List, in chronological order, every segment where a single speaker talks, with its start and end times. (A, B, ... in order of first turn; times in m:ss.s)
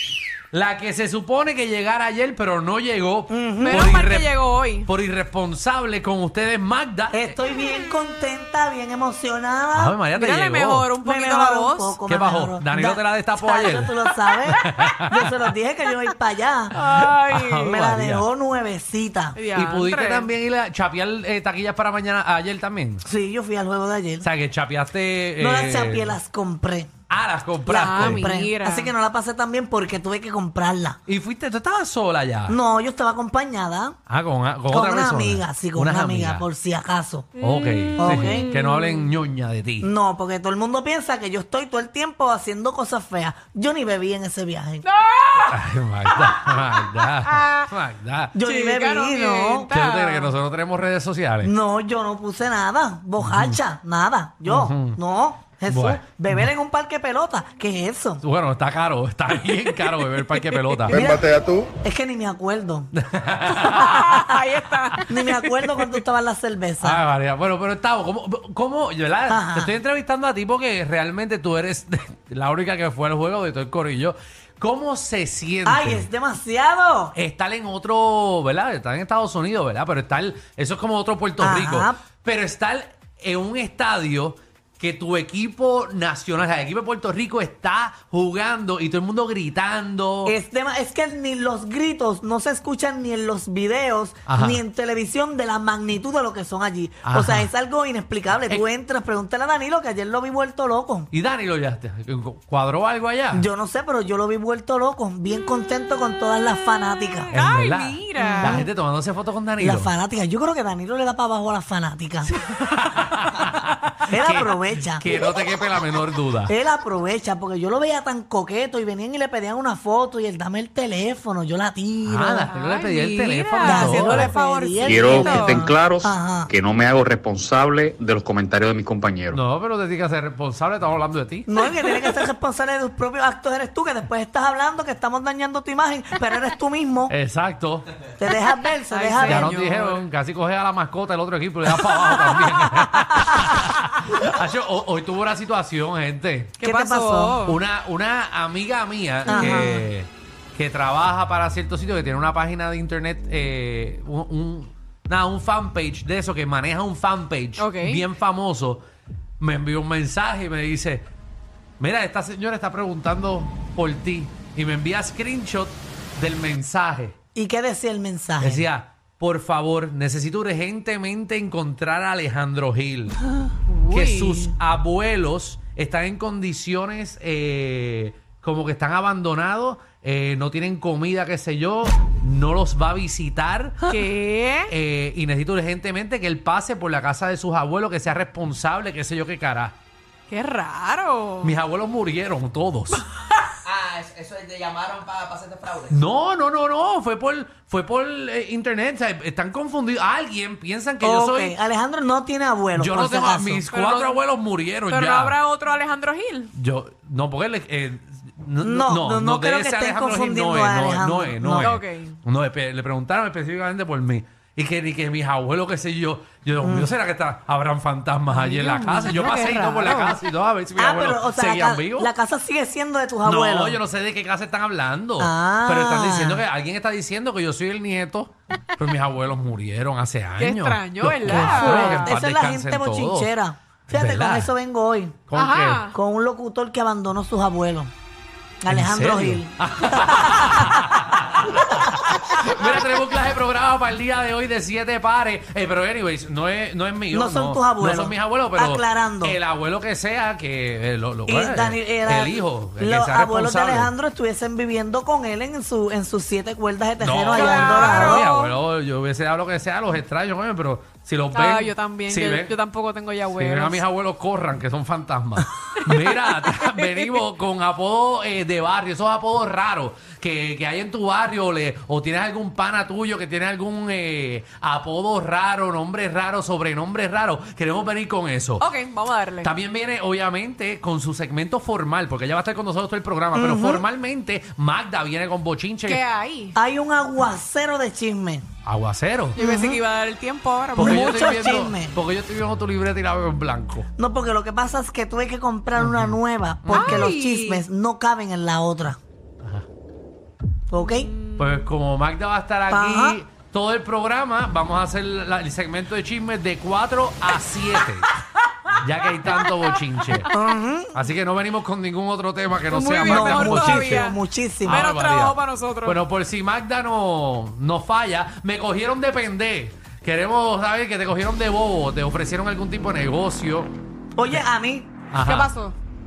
0:00.5-0:07.3 A
0:03.3-0:03.8 B
0:03.6-0:04.9 C
0:07.1-0:10.0 B
0:09.7-0:10.9 A
0:10.1-0:12.0 C
0:11.0-0:16.7 B
0:12.1-0:15.0 A
0:16.7-0:18.2 A
0:16.7-0:17.7 C
0:17.7-0:19.4 B
0:19.4-0:20.3 C
0:19.5-0:23.0 A
0:23.0-0:24.3 B
0:24.2-0:26.2 A
0:25.4-0:26.9 B
0:27.1-0:28.3 A
0:27.7-0:31.0 B
0:27.7-0:28.9 C
0:31.1-0:32.6 A
0:32.5-0:34.0 B
0:34.1-0:36.4 A
0:34.7-0:37.3 B
0:37.4-0:39.1 C
0:37.4-0:39.9 A
0:38.0-0:38.5 B
0:39.8-0:44.8 B
0:44.8-0:47.6 C
0:45.5-0:48.3 A
0:48.3-0:49.7 B
0:48.4-0:50.3 C
0:49.7-0:51.5 A
0:51.4-0:58.2 B
0:53.2-0:53.6 A
0:54.4-0:55.0 A
0:55.7-0:56.5 A
0:58.2-1:01.0 A
1:00.6-1:00.9 C
1:00.9-1:02.9 B
1:03.0-1:04.2 A
1:03.5-1:05.7 C
1:05.0-1:07.0 B
1:06.8-1:16.1 A
1:09.3-1:09.7 B
1:15.6-1:17.2 B
1:17.1-1:30.3 A
1:21.4-1:22.0 B
1:30.2-1:41.1 B
1:34.2-1:34.6 A
1:37.0-1:37.5 A
1:41.1-1:43.5 A
1:43.3-1:47.3 B
1:47.2-1:48.6 C
1:47.3-1:49.9 A
1:48.2-1:48.7 B
1:49.6-1:52.3 B
1:52.3-1:56.5 A
1:54.1-1:55.1 B
1:56.5-2:02.5 B
2:02.0-2:04.4 A
2:02.5-2:05.6 C
2:03.6-2:06.5 B
2:04.9-2:09.4 D
2:09.3-2:11.5 A
2:11.4-2:17.1 B
2:17.1-2:17.9 A
2:18.2-2:19.5 B
2:18.9-2:20.0 C
2:19.2-2:26.6 A
2:26.6-2:27.6 C
2:26.6-2:27.4 B
2:27.4-2:38.8 A
2:29.2-2:29.9 B
2:37.6-2:38.0 C
2:39.4-2:41.0 A
2:41.8-2:47.1 A
2:47.4-2:48.7 B
2:48.4-2:53.2 A
2:53.7-2:54.5 C
2:53.9-3:03.9 A
3:03.9-3:04.7 C
3:04.7-3:09.8 A
3:10.3-3:11.5 C
3:11.4-3:13.0 A
3:13.6-3:16.0 E
3:15.9-3:21.5 A
3:21.0-3:23.7 B
3:22.7-3:25.4 A
3:23.7-3:24.2 C
3:24.9-3:26.5 C
3:26.5-3:42.1 A
3:28.6-3:31.8 B
3:31.6-3:32.2 C
3:36.6-3:36.9 B
3:38.3-3:40.2 C
3:40.8-3:43.8 B
3:43.2-3:53.3 A
3:45.2-3:46.4 B
3:50.4-3:52.1 C
3:51.2-3:55.2 B
3:53.9-3:54.5 A
3:55.3-3:55.9 A
3:55.3-3:55.9 C
3:55.9-3:57.9 B
3:58.6-4:00.9 B
3:58.7-4:13.9 A
4:07.1-4:09.4 B
4:11.3-4:18.2 B
4:17.0-4:22.5 A
4:17.3-4:18.5 C
4:21.3-4:23.8 C
4:23.3-4:38.7 A
4:25.8-4:27.2 C
4:38.6-4:39.5 C
4:39.4-4:46.0 A
4:43.3-4:43.8 B
4:45.8-4:46.5 C
4:46.5-4:48.4 B
4:48.6-4:49.4 A
4:49.4-4:51.4 C
4:49.4-4:49.8 B
4:50.7-4:53.9 A
4:50.8-4:52.0 B
4:54.0-4:59.0 B
4:55.8-4:57.1 A
4:56.7-4:57.6 C
5:00.7-5:01.1 B
5:00.8-5:01.6 C
5:01.4-5:08.1 A
5:02.7-5:03.2 B
5:08.7-5:10.3 A
5:10.3-5:11.0 B
5:10.9-5:14.1 A
5:12.7-5:16.0 C
5:13.0-5:14.9 B
5:14.6-5:23.7 A
5:24.2-5:24.9 B
5:25.1-5:25.5 A
5:25.2-5:25.7 C